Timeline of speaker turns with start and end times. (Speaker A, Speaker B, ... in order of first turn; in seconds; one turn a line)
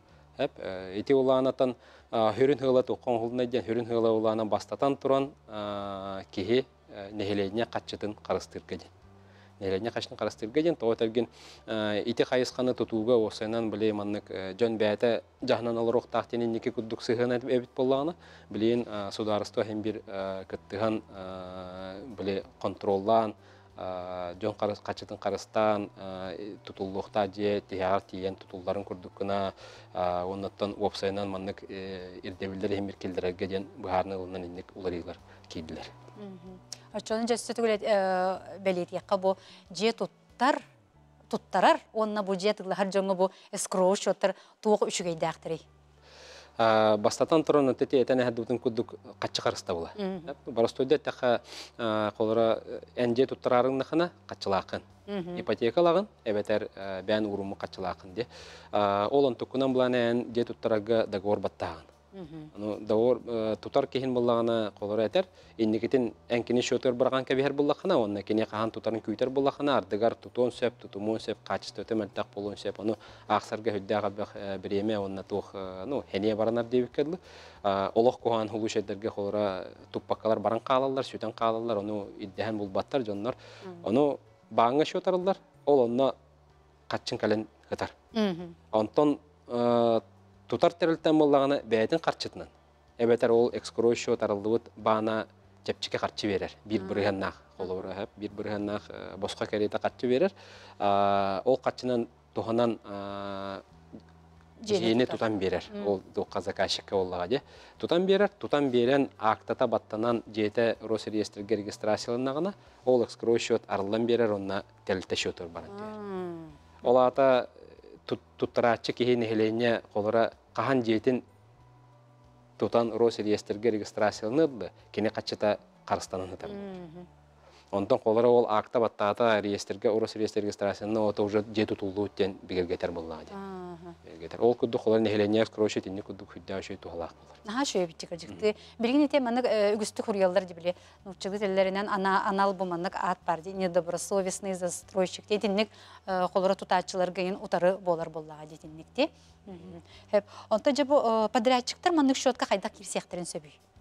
Speaker A: 0.4-8.9
Speaker A: 9.6-35.9
Speaker B: 36.2-40.6
Speaker B: 41.3-45.6
Speaker A: 46.6-54.8
Speaker B: 50.0-50.3
Speaker B: 55.1-55.4
Speaker A: 55.4-61.9
Speaker B: 62.1-62.5
Speaker A: 62.5-86.2
Speaker A: 86.9-87.9
Speaker B: 88.1-88.6
Speaker A: 88.7-103.6
Speaker B: 96.8-97.1
Speaker B: 104.6-106.0
Speaker A: 104.7-115.9
Speaker B: 115.7-116.6
Speaker A: 116.8-121.2
Speaker A: 122.6-126.7
Speaker B: 126.5-127.1
Speaker A: 127.7-133.3
Speaker B: 133.3-134.0
Speaker A: 134.0-137.4
Speaker B: 137.4-153.6